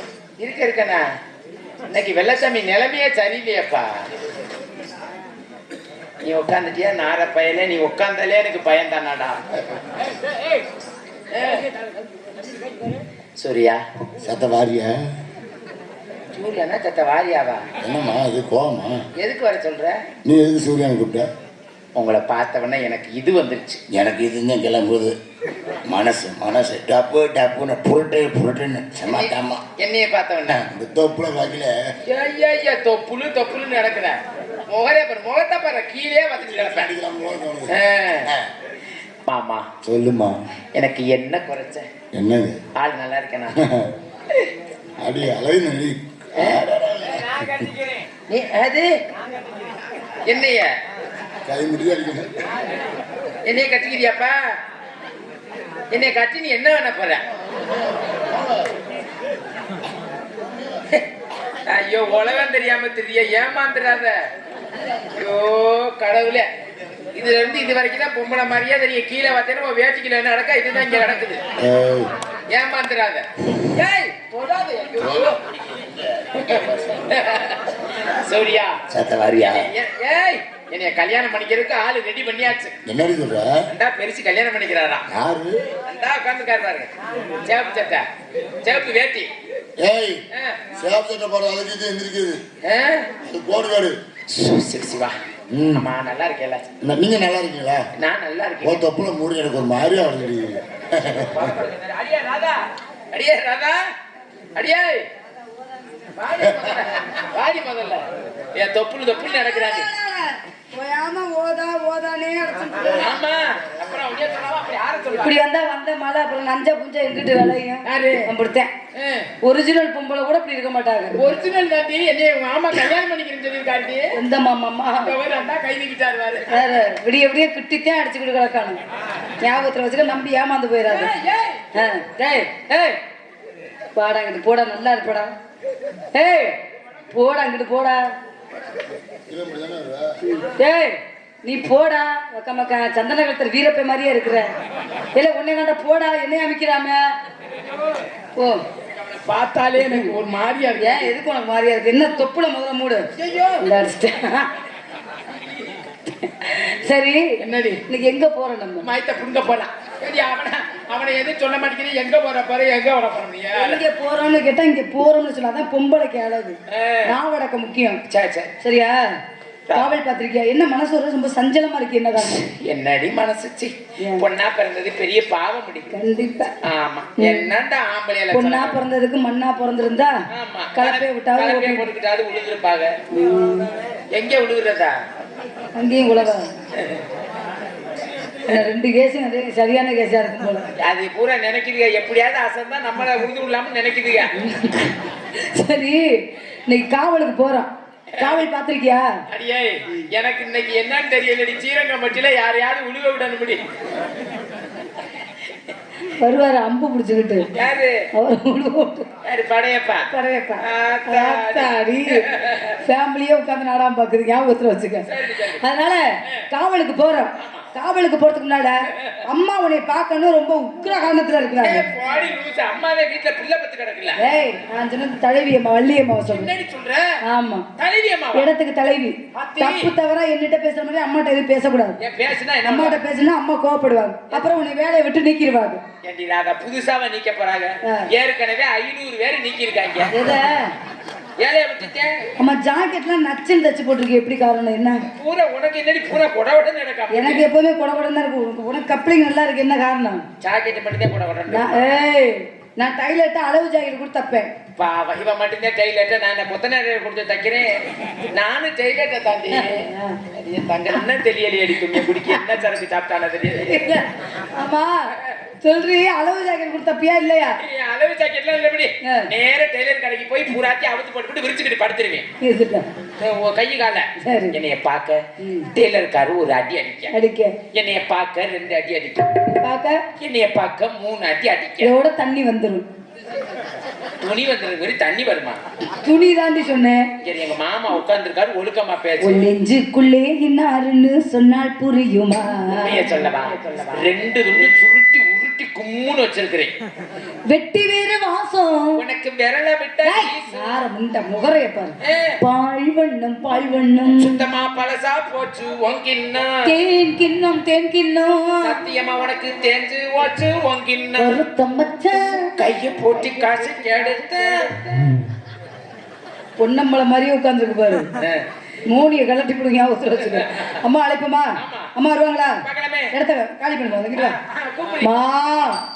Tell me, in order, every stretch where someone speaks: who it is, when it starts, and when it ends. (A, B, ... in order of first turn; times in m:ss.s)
0:00.4-0:01.1 A
0:01.9-0:04.1 A
0:06.2-0:09.4 A
0:11.3-0:11.7 A
0:13.4-0:13.8 A
0:14.2-0:15.0 B
0:16.3-0:17.7 A
0:17.8-0:19.0 B
0:19.2-0:20.0 A
0:20.3-0:21.3 B
0:22.0-0:23.8 A
0:23.9-0:25.2 B
0:25.9-0:29.6 B
0:29.0-0:30.6 A
0:30.5-0:31.7 B
0:32.1-0:36.9 A
0:36.4-0:37.8 B
0:37.7-0:38.3 A
0:39.3-0:39.6 A
0:39.8-0:40.4 B
0:40.8-0:41.9 A
0:42.2-0:42.6 B
0:42.8-0:43.6 A
0:43.6-0:43.9 B
0:45.0-0:47.6 B
0:48.3-0:48.9 A
0:50.3-0:50.7 A
0:51.5-0:52.3 B
0:53.4-0:54.5 A
0:55.9-0:57.2 A
1:01.7-1:04.2 A
1:05.1-1:06.5 A
1:07.2-1:11.4 A
1:11.6-1:12.1 B
1:12.5-1:15.4 A
1:15.2-1:17.0 B
1:16.4-1:18.8 A
1:18.9-1:19.7 B
1:19.5-1:22.8 A
1:22.9-1:23.6 B
1:23.7-1:25.1 A
1:25.1-1:25.6 B
1:25.9-1:26.9 A
1:27.4-1:28.0 A
1:28.6-1:29.3 A
1:29.8-1:30.2 B
1:30.4-1:30.6 A
1:30.8-1:32.4 B
1:32.6-1:33.1 A
1:33.3-1:34.0 B
1:34.3-1:35.2 A
1:35.5-1:35.9 B
1:35.7-1:36.6 A
1:36.8-1:37.9 B
1:38.0-1:38.9 A
1:38.6-1:41.5 B
1:41.3-1:43.8 A
1:44.6-1:45.1 A
1:46.2-1:48.0 A
1:48.6-1:49.9 A
1:49.2-1:53.1 C
1:53.0-1:55.4 A
1:55.1-1:58.7 C
1:57.8-1:58.3 A
1:59.0-1:59.3 A
1:59.4-2:01.2 C
2:01.1-2:04.2 A
2:04.1-2:05.1 C
2:05.0-2:06.7 A
2:06.5-2:08.8 C
2:09.4-2:11.1 C
2:10.9-2:11.6 A
2:11.7-2:13.0 C
2:14.0-2:15.3 C
2:16.1-2:16.6 C
2:17.1-2:18.0 C
2:19.3-2:20.1 B
2:20.2-2:24.5 C
2:25.2-2:27.0 C
2:28.4-2:28.6 C
2:29.0-2:31.1 A
2:29.8-2:30.2 C
2:30.8-2:33.1 C
2:33.2-2:33.6 A
2:33.6-2:34.5 C
2:36.2-2:37.2 C
2:37.4-2:37.8 A
2:37.8-2:38.9 C
2:38.8-2:43.8 A
2:43.6-2:48.0 C
2:46.7-2:47.1 A
2:48.1-2:48.5 A
2:48.6-2:49.0 C
2:49.7-2:49.9 A
2:49.7-2:52.4 C
2:52.2-2:55.9 A
2:55.9-2:56.5 C
2:56.6-2:58.8 A
2:57.2-2:57.5 C
2:58.3-3:00.1 C
3:00.3-3:02.9 A
3:00.8-3:01.9 C
3:03.1-3:03.7 C
3:04.1-3:05.0 A
3:05.8-3:06.5 C
3:06.8-3:07.0 A
3:08.5-3:10.7 C
3:10.8-3:14.5 A
3:14.4-3:19.1 C
3:19.3-3:23.6 A
3:26.1-3:27.5 C
3:27.5-3:28.0 A
3:28.2-3:29.1 C
3:29.2-3:30.1 A
3:30.1-3:32.3 C
3:30.6-3:32.8 A
3:32.8-3:38.7 C
3:35.1-3:35.6 A
3:37.4-3:37.7 A
3:39.2-3:41.9 C
3:41.6-3:44.2 A
3:44.2-3:46.5 C
3:46.3-3:47.1 A
3:47.2-3:47.7 C
3:47.8-3:48.5 A
3:48.4-3:52.0 C
3:49.3-3:49.9 A
3:52.0-3:53.0 A
3:52.6-3:55.8 C
3:56.0-4:00.4 A
4:00.1-4:00.7 C
4:01.4-4:02.2 A
4:02.4-4:05.0 C
4:05.2-4:07.4 A
4:07.1-4:10.2 C
4:10.4-4:12.0 A
4:11.5-4:14.5 C
4:14.8-4:17.7 A
4:18.3-4:24.0 A
4:19.5-4:20.2 C
4:23.6-4:24.9 C
4:25.2-4:25.4 A
4:25.6-4:27.6 C
4:27.6-4:32.3 A
4:29.0-4:29.3 C
4:32.4-4:32.8 C
4:33.2-4:35.2 A
4:34.2-4:34.6 C
4:35.4-4:35.7 C
4:35.7-4:37.1 A
4:37.1-4:37.6 C
4:37.7-4:39.3 A
4:39.5-4:40.0 C
4:40.2-4:41.9 A
4:41.8-4:42.8 C
4:44.2-4:45.6 A
4:46.0-4:47.1 C
4:47.2-4:49.4 A
4:49.2-4:53.2 C
4:52.8-4:56.8 A
4:57.5-4:59.0 C
4:59.0-5:00.8 A
5:00.0-5:04.4 C
5:02.0-5:02.4 A
5:04.1-5:06.7 A
5:06.6-5:08.8 C
5:08.6-5:11.4 A
5:11.2-5:12.6 C
5:12.6-5:14.7 A
5:13.1-5:15.1 C
5:16.6-5:18.1 C
5:18.2-5:18.5 A
5:18.9-5:22.6 C
5:20.2-5:20.8 A
5:21.6-5:21.9 A
5:22.6-5:23.1 A
5:23.1-5:24.4 C
5:24.1-5:25.1 A
5:25.0-5:25.8 C